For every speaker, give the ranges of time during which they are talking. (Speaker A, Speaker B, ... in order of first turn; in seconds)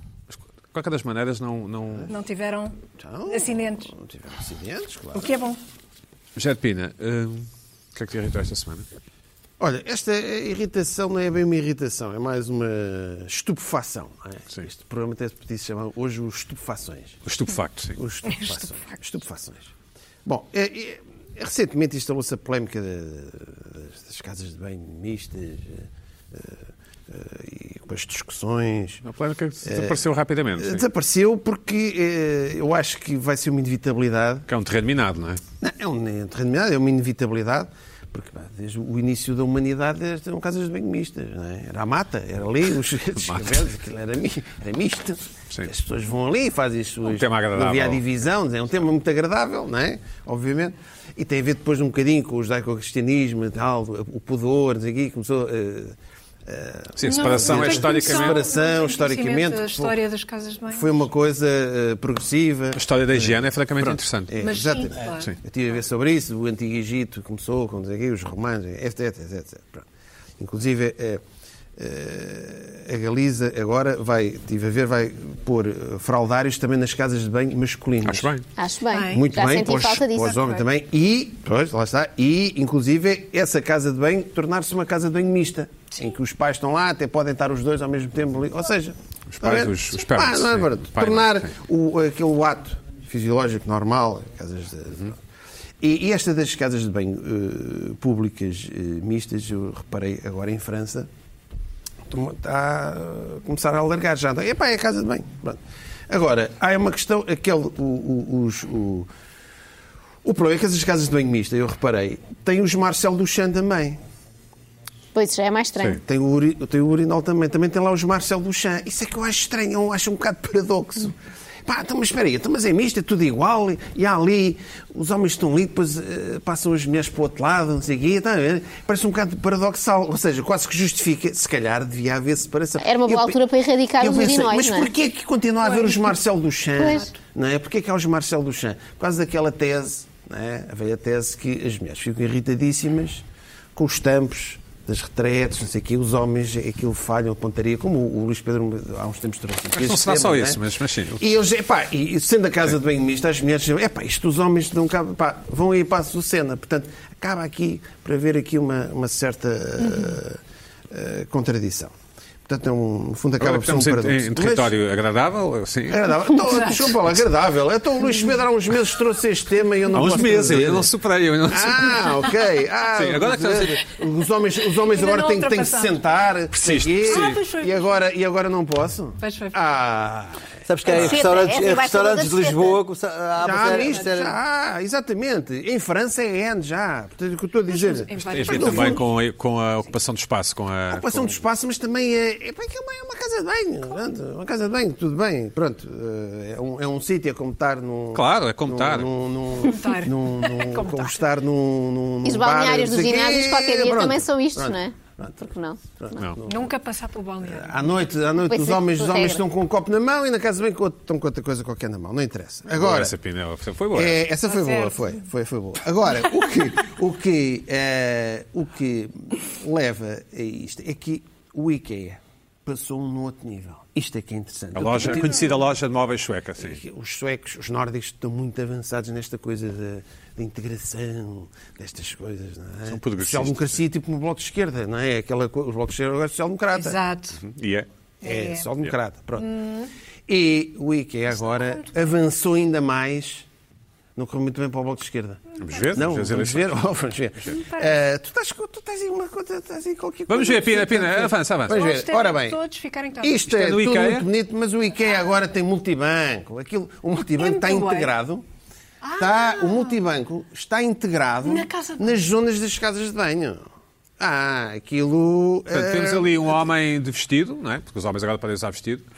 Speaker A: 0.3-2.1, 6.4-8.9, 17.2-18.0, 29.1-30.9, 34.5-35.4, 43.2-43.6, 47.0-48.0, 57.0-58.4, 62.8-64.3, 78.0-78.5, 89.3-91.5, 149.8-151.2, 163.4-166.1, 169.9-172.2, 172.8-173.9, 176.6-177.4, 188.3-191.4, 198.1-199.1, 212.8-214.2, 224.8-226.8, 232.9-233.8, 237.4-237.9, 245.6-246.7, 250.3-251.8, 253.5-254.3, 265.7-269.0
Speaker B: 2.1-3.9, 5.1-5.6, 57.0-61.0, 64.4-65.3, 78.9-79.3, 135.6-136.2, 136.8-137.1, 159.8-160.1, 174.8-176.0, 177.1-178.1, 179.2-179.6, 183.7-184.1, 187.7-189.0, 199.6-201.2, 206.4-208.1, 214.4-215.2, 236.7-237.4, 238.2-238.7, 239.4-239.9, 241.5-242.1, 245.6-246.0, 247.5-248.0, 251.7-253.4, 257.3-258.1, 259.0-260.0, 261.4-262.2
Speaker C: 3.0-5.3, 9.6-17.2, 18.0-19.7, 20.2-29.0, 29.6-30.0, 30.6-34.5, 35.6-60.0, 60.7-69.9, 70.4-71.2, 71.8-78.3, 79.1-95.2, 95.8-101.1, 102.1-109.1, 110.2-114.0, 116.0-121.2, 121.7-133.4, 134.0-150.6, 151.2-161.9, 162.4-164.7, 165.9-170.9, 171.5-181.0, 183.4-189.0, 190.9-206.7, 207.4-213.1, 213.9-225.5, 226.6-237.0, 238.2-239.6, 240.3-243.5, 244.2-252.6, 253.2-258.4, 259.2-263.6, 264.2-266.6
Speaker D: 78.6-80.6, 115.1-116.0, 132.8-134.9, 136.8-137.1, 180.8-182.8, 202.2-205.8, 208.5-209.4
Speaker E: 180.7-184.4